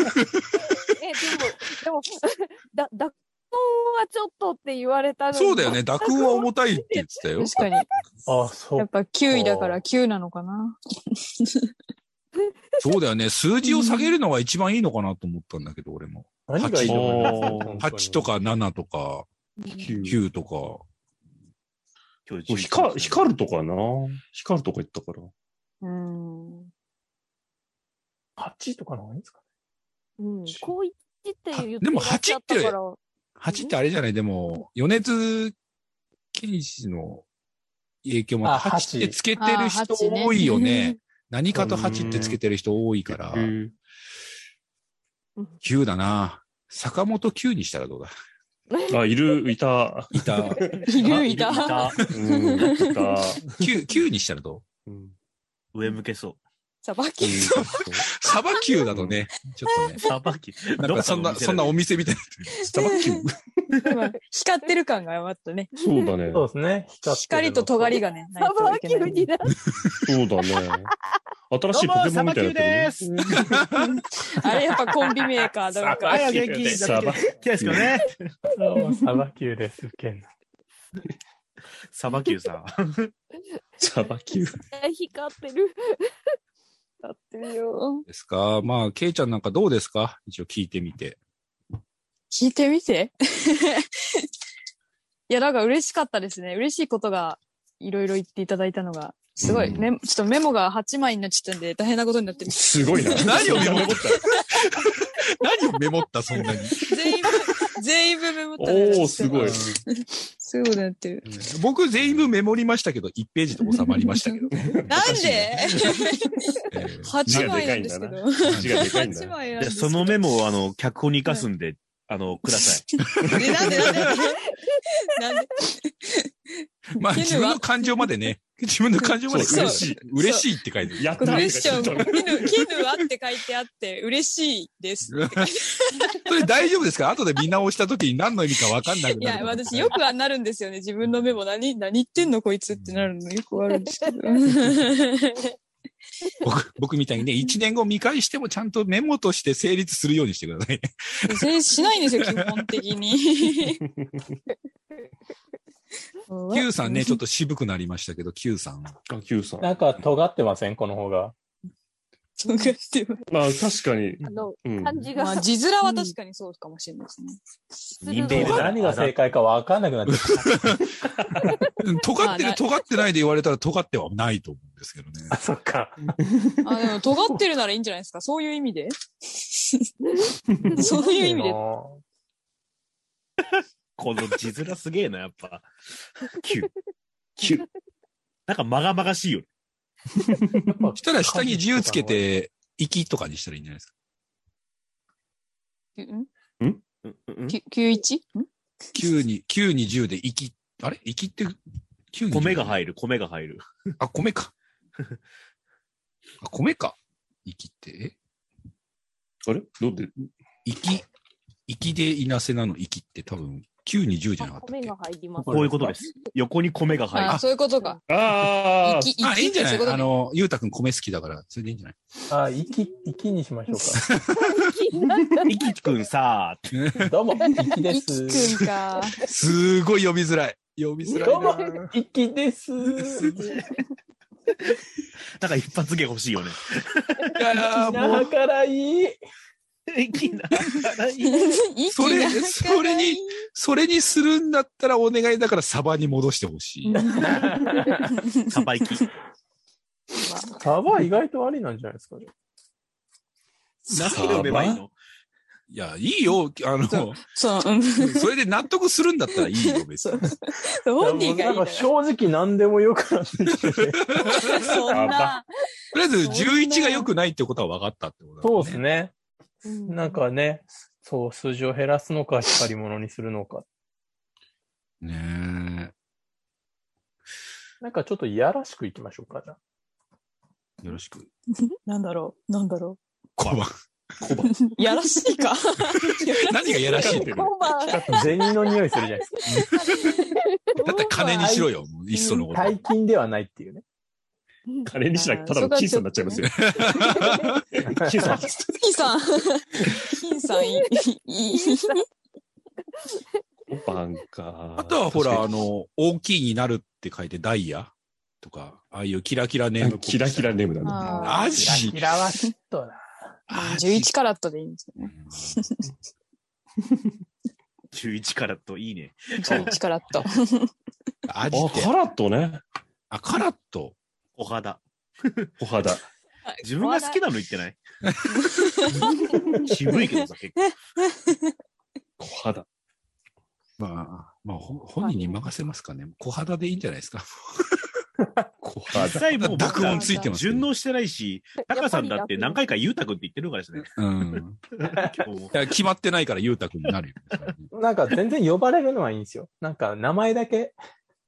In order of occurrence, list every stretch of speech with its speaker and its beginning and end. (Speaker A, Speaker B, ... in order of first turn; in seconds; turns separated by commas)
Speaker A: 0.1-0.6, Speaker B: 0.8-7.0, Speaker A: 5.3-7.7, Speaker C: 7.4-7.9, Speaker D: 8.3-9.8, Speaker C: 8.8-10.8, Speaker C: 11.4-11.7, Speaker B: 12.4-12.8, Speaker A: 12.8-19.3, Speaker C: 13.6-14.1, Speaker D: 16.5-18.3, Speaker E: 16.8-17.8, Speaker B: 19.6-19.9, Speaker E: 19.8-20.2, Speaker A: 20.0-20.8, Speaker F: 22.3-23.3, Speaker E: 22.5-25.3, Speaker C: 25.8-26.7, Speaker D: 28.4-29.4, Speaker B: 30.2-33.0, Speaker E: 30.5-30.7, Speaker A: 31.5-32.8, Speaker A: 33.4-35.5, Speaker A: 36.3-37.3, Speaker A: 38.0-43.5, Speaker D: 38.4-39.2, Speaker C: 39.4-41.0, Speaker E: 41.5-42.4, Speaker E: 43.2-43.7, Speaker A: 45.6-48.1, Speaker B: 48.7-49.0, Speaker E: 48.9-50.9, Speaker A: 50.1-50.6, Speaker C: 50.9-53.1, Speaker F: 50.9-52.0, Speaker E: 52.0-53.7, Speaker A: 53.6-54.7, Speaker E: 54.9-55.1, Speaker F: 55.7-56.4, Speaker C: 56.8-58.0, Speaker E: 57.2-58.0, Speaker A: 57.4-60.0, Speaker E: 58.9-59.2, Speaker F: 60.0-61.8, Speaker A: 60.8-62.6, Speaker E: 62.7-63.6, Speaker C: 62.7-63.3, Speaker C: 63.9-65.7, Speaker E: 65.8-66.5, Speaker B: 65.8-66.1, Speaker D: 66.3-68.0, Speaker C: 67.1-69.3, Speaker B: 68.4-69.6, Speaker E: 70.1-70.9, Speaker E: 71.5-73.6, Speaker F: 71.7-73.5, Speaker C: 73.8-76.8, Speaker F: 76.0-78.3, Speaker D: 76.1-76.8, Speaker E: 76.6-78.0, Speaker D: 78.6-80.3, Speaker F: 81.9-83.1, Speaker E: 83.8-84.6, Speaker B: 84.7-86.1, Speaker C: 87.0-88.0, Speaker A: 88.1-91.2, Speaker C: 92.3-94.3, Speaker C: 95.3-104.4, Speaker E: 99.4-99.9, Speaker E: 102.5-104.3, Speaker A: 103.1-104.3, Speaker A: 105.3-106.9, Speaker C: 106.8-111.3, Speaker E: 108.6-109.7, Speaker A: 111.3-115.9, Speaker C: 113.7-120.3, Speaker E: 114.5-115.3, Speaker A: 116.7-117.7, Speaker E: 117.3-119.4, Speaker A: 118.5-119.1, Speaker F: 119.6-124.1, Speaker C: 123.0-124.5, Speaker A: 123.2-124.1, Speaker C: 125.1-128.1, Speaker A: 127.0-132.1, Speaker E: 129.3-130.1, Speaker C: 129.3-130.5, Speaker E: 131.0-132.7, Speaker C: 131.2-136.3, Speaker A: 135.1-135.6, Speaker A: 136.2-140.0, Speaker C: 139.0-145.5, Speaker A: 142.7-143.1, Speaker B: 143.7-144.5, Speaker A: 146.4-151.5, Speaker C: 151.3-153.8, Speaker A: 152.2-152.7, Speaker E: 153.8-154.4, Speaker C: 156.3-157.2, Speaker A: 156.5-159.0, Speaker E: 159.1-159.8, Speaker D: 159.6-161.3, Speaker C: 162.4-163.3, Speaker B: 162.5-162.7, Speaker E: 163.3-165.1, Speaker B: 164.2-166.1, Speaker C: 165.2-167.4, Speaker B: 168.0-168.8, Speaker F: 168.0-169.2, Speaker D: 168.3-170.6, Speaker A: 170.3-170.8, Speaker A: 171.8-175.3, Speaker C: 172.2-172.6, Speaker D: 175.3-176.1, Speaker C: 176.6-179.9, Speaker B: 180.0-181.1, Speaker D: 180.7-182.0, Speaker C: 180.7-181.6, Speaker F: 183.5-185.7, Speaker F: 186.2-186.7, Speaker E: 187.4-187.7, Speaker F: 188.5-189.5, Speaker E: 190.2-190.7, Speaker D: 190.7-192.3, Speaker A: 190.9-193.9, Speaker C: 196.0-196.3, Speaker F: 197.0-197.6, Speaker C: 197.5-198.5, Speaker A: 198.9-201.6, Speaker A: 202.1-202.8, Speaker F: 202.3-203.6, Speaker A: 204.0-204.5, Speaker A: 206.4-208.2, Speaker E: 209.5-210.3, Speaker A: 210.7-211.1, Speaker A: 211.7-214.9, Speaker B: 214.4-215.9, Speaker D: 215.4-216.0, Speaker F: 215.5-217.4, Speaker C: 217.1-218.0, Speaker E: 218.1-219.1, Speaker C: 218.8-220.1, Speaker A: 219.2-222.0, Speaker D: 222.3-224.0, Speaker A: 224.0-224.7, Speaker B: 224.4-225.7, Speaker F: 225.5-226.7, Speaker A: 226.7-227.1, Speaker D: 227.0-228.7, Speaker C: 227.9-229.2, Speaker A: 229.2-231.6, Speaker B: 231.1-231.7, Speaker D: 231.2-233.6, Speaker F: 235.4-237.4, Speaker A: 237.4-238.3, Speaker D: 237.8-239.2, Speaker F: 239.9-241.6, Speaker C: 241.2-243.4, Speaker A: 241.9-247.1, Speaker D: 247.0-248.1, Speaker C: 247.0-247.3, Speaker C: 248.1-249.0, Speaker F: 248.5-249.1, Speaker C: 250.2-250.5, Speaker D: 250.6-252.3, Speaker F: 253.9-254.9, Speaker E: 253.9-254.8, Speaker A: 255.7-257.2, Speaker C: 256.9-258.3, Speaker A: 258.0-260.3, Speaker C: 259.4-261.9, Speaker D: 261.0-264.1, Speaker A: 264.1-264.8, Speaker C: 264.3-265.5, Speaker E: 264.9-265.4, Speaker A: 265.9-268.8, Speaker C: 266.2-267.1, Speaker D: 268.4-269.1, Speaker B: 269.6-270.2, Speaker D: 269.9-273.6, Speaker A: 275.0-275.9, Speaker D: 277.8-279.6, Speaker A: 280.8-281.3, Speaker C: 281.9-283.0, Speaker A: 283.4-283.7, Speaker E: 284.2-284.6, Speaker C: 284.5-287.2, Speaker A: 286.0-287.4, Speaker E: 287.0-288.5, Speaker B: 287.0-288.8, Speaker D: 288.1-289.3, Speaker A: 289.5-289.8, Speaker B: 289.7-291.6, Speaker A: 290.8-292.8, Speaker D: 291.3-293.8, Speaker E: 294.9-296.9, Speaker C: 295.1-296.5, Speaker A: 296.4-297.6, Speaker B: 297.0-297.5, Speaker E: 297.8-298.9, Speaker D: 297.8-298.4, Speaker C: 298.8-302.0, Speaker B: 300.6-300.9, Speaker B: 301.5-302.0, Speaker E: 303.7-305.5, Speaker A: 304.8-312.0, Speaker E: 309.8-311.4, Speaker C: 310.8-311.6, Speaker D: 311.4-313.0, Speaker A: 313.5-314.1, Speaker C: 313.5-315.9, Speaker A: 315.1-315.6, Speaker E: 316.8-317.1, Speaker F: 317.9-319.7, Speaker C: 319.4-320.7, Speaker A: 321.3-321.9, Speaker E: 321.5-322.6, Speaker A: 323.1-324.0, Speaker F: 324.4-325.5, Speaker E: 325.6-326.1, Speaker C: 326.5-327.2, Speaker F: 326.6-327.8, Speaker C: 328.3-329.3, Speaker F: 329.1-330.6, Speaker E: 329.3-329.6, Speaker C: 329.9-331.4, Speaker E: 332.2-332.7, Speaker A: 333.8-337.8, Speaker B: 335.0-335.4, Speaker E: 338.6-339.5, Speaker F: 338.9-343.9, Speaker A: 339.4-340.7, Speaker B: 339.7-340.2, Speaker B: 341.6-342.6, Speaker A: 343.9-344.6, Speaker F: 344.8-345.6, Speaker D: 344.9-345.2, Speaker A: 345.5-347.7, Speaker D: 347.7-350.8